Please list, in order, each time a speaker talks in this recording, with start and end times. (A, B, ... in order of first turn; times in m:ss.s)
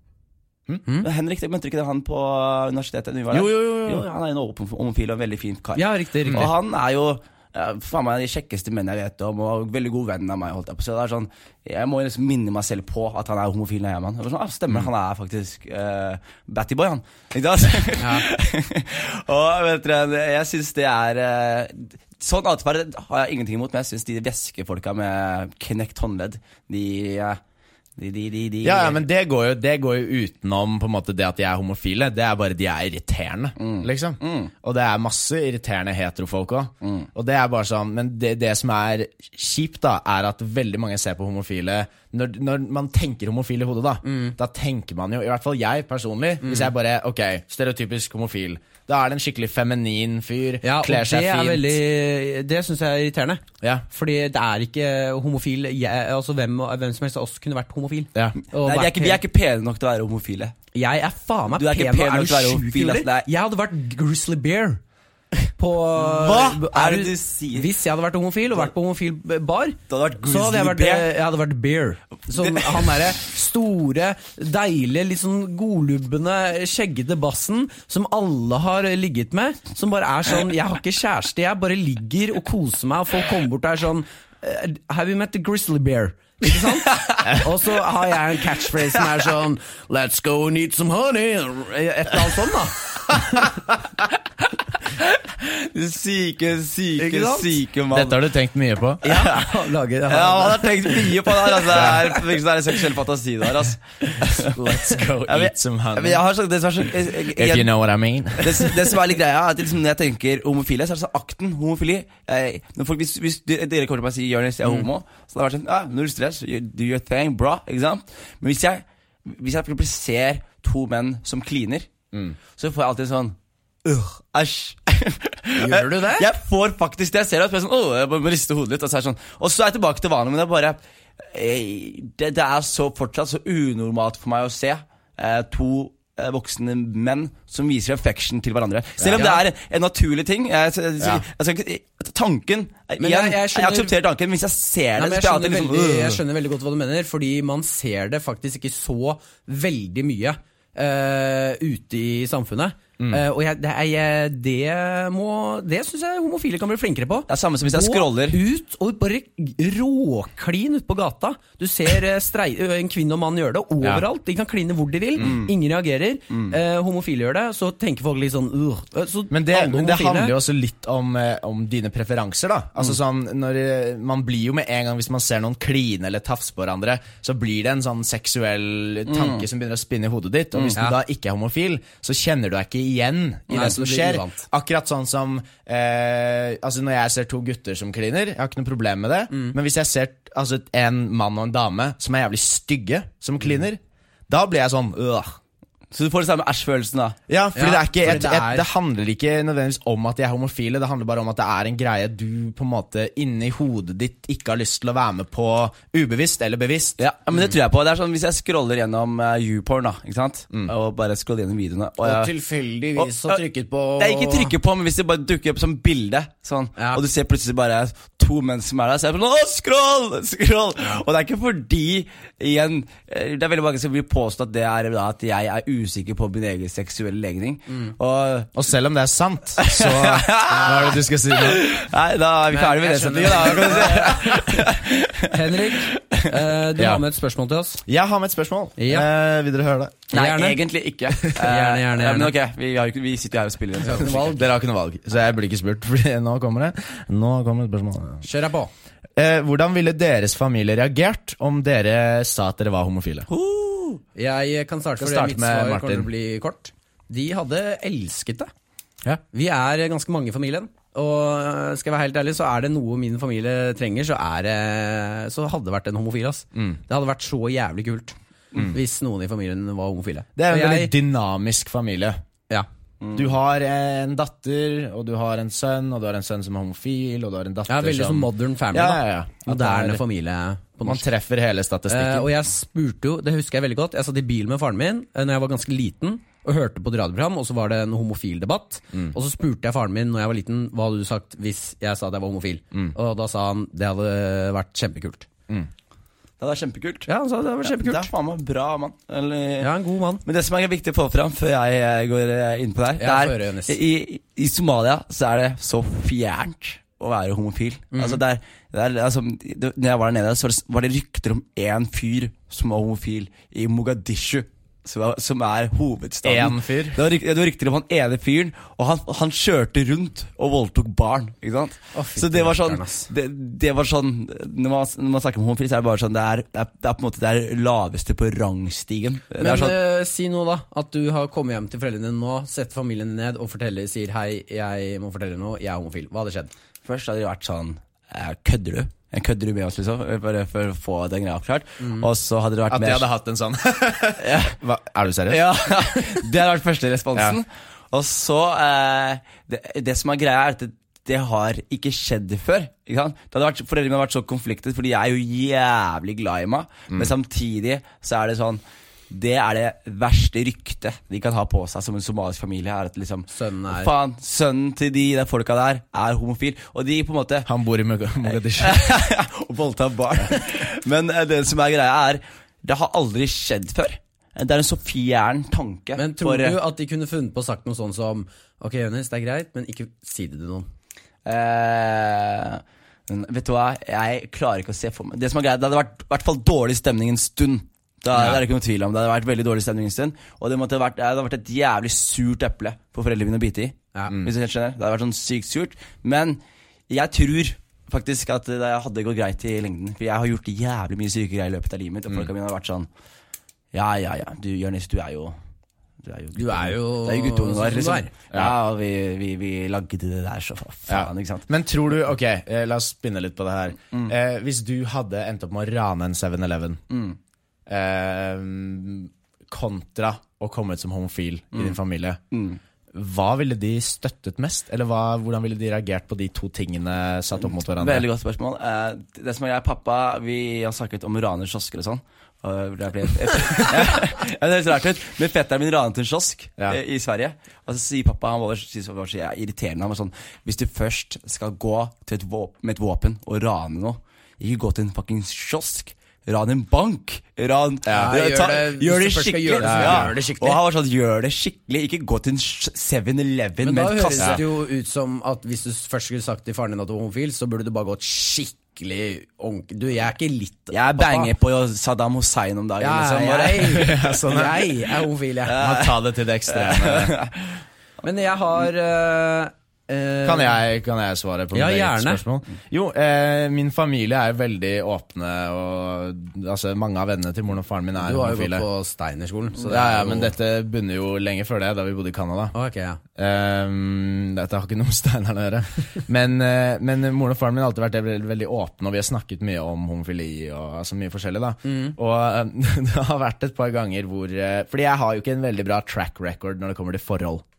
0:01.0-0:27.4 A
0:03.3-0:04.1 B
0:05.8-0:06.5 C
0:18.0-0:18.3 C
0:28.0-0:29.0 A
0:28.6-0:51.8 B
0:33.6-0:34.5 A
0:36.8-0:37.1 A
0:44.0-0:44.4 C
0:46.4-0:46.7 C
0:50.6-0:59.2 C
0:58.6-1:00.6 A
1:00.7-1:04.8 C
1:01.5-1:03.3 A
1:05.6-1:33.6 C
1:06.0-1:07.7 A
1:09.9-1:11.1 A
1:12.4-1:13.1 A
1:35.4-1:38.2 A
1:37.0-1:37.6 C
1:37.9-1:39.0 B
1:39.0-1:41.1 C
1:39.1-1:39.5 A
1:40.1-1:44.6 A
1:44.3-1:46.2 B
1:45.3-1:47.7 A
1:47.4-1:48.8 B
1:48.4-2:01.9 A
2:02.6-2:26.2 A
2:05.6-2:06.3 C
2:19.0-2:19.3 B
2:19.2-2:19.4 C
2:23.0-2:23.9 C
2:25.0-2:50.3 C
2:37.3-2:38.4 A
2:45.2-2:45.5 A
2:49.3-3:15.4 B
2:59.1-2:59.5 A
3:03.5-3:04.4 C
3:15.9-3:17.2 A
3:17.3-3:27.0 B
3:17.6-3:18.7 C
3:27.0-3:32.3 A
3:32.0-3:34.5 C
3:33.0-3:33.4 A
3:34.0-3:48.5 A
3:36.8-3:37.0 C
3:48.6-3:51.7 B
3:49.6-3:56.4 A
3:50.5-3:50.8 C
3:52.5-3:54.7 C
3:55.3-3:57.8 C
3:56.8-3:57.0 B
3:57.9-4:00.0 B
3:58.8-3:59.1 C
4:00.1-4:04.5 A
4:00.1-4:00.6 C
4:01.2-4:02.3 C
4:03.8-4:04.3 C
4:04.0-4:08.2 B
4:08.2-4:08.7 C
4:09.2-4:13.3 B
4:13.3-4:14.0 A
4:14.2-4:18.5 C
4:15.0-4:16.1 B
4:19.1-4:30.9 C
4:30.4-4:32.2 B
4:33.0-4:33.3 A
4:33.1-4:40.0 B
4:37.7-4:41.0 C
4:40.8-4:42.3 B
4:41.9-4:55.3 C
4:56.4-4:57.1 A
4:57.1-4:58.1 C
4:57.6-4:59.7 A
4:59.6-5:00.2 C
5:00.2-5:29.8 A
5:03.0-5:03.8 C
5:07.9-5:08.2 C
5:16.2-5:17.0 B
5:21.9-5:23.1 C
5:29.4-5:36.5 C
5:36.8-5:43.1 A
5:41.8-5:42.1 C
5:42.7-5:45.4 B
5:45.3-6:07.5 A
5:45.8-5:46.2 C
6:03.3-6:03.9 C
6:07.5-6:08.8 B
6:08.3-6:16.6 A
6:16.0-6:20.7 C
6:21.2-6:42.9 A
6:43.7-6:45.4 A
6:46.0-6:51.5 A
6:46.4-6:48.1 C
6:50.9-6:56.8 B
6:56.9-6:57.2 A
6:57.7-7:02.2 B
7:02.3-7:02.6 A
7:02.9-7:08.1 B
7:07.8-7:34.4 A
7:27.9-7:28.1 B
7:27.9-7:30.6 C
7:29.6-7:30.1 B
7:33.6-7:41.3 C
7:34.2-7:34.4 B
7:40.7-7:44.0 A
7:42.8-7:45.8 C
7:43.6-7:44.7 B
7:45.5-7:47.6 A
7:45.6-7:47.2 B
7:48.0-7:50.6 C
7:50.2-7:58.6 B
7:51.5-7:52.2 C
7:58.0-8:00.3 C
7:59.6-8:02.5 B
8:02.5-8:03.0 C
8:03.2-8:17.4 B
8:11.6-8:12.0 C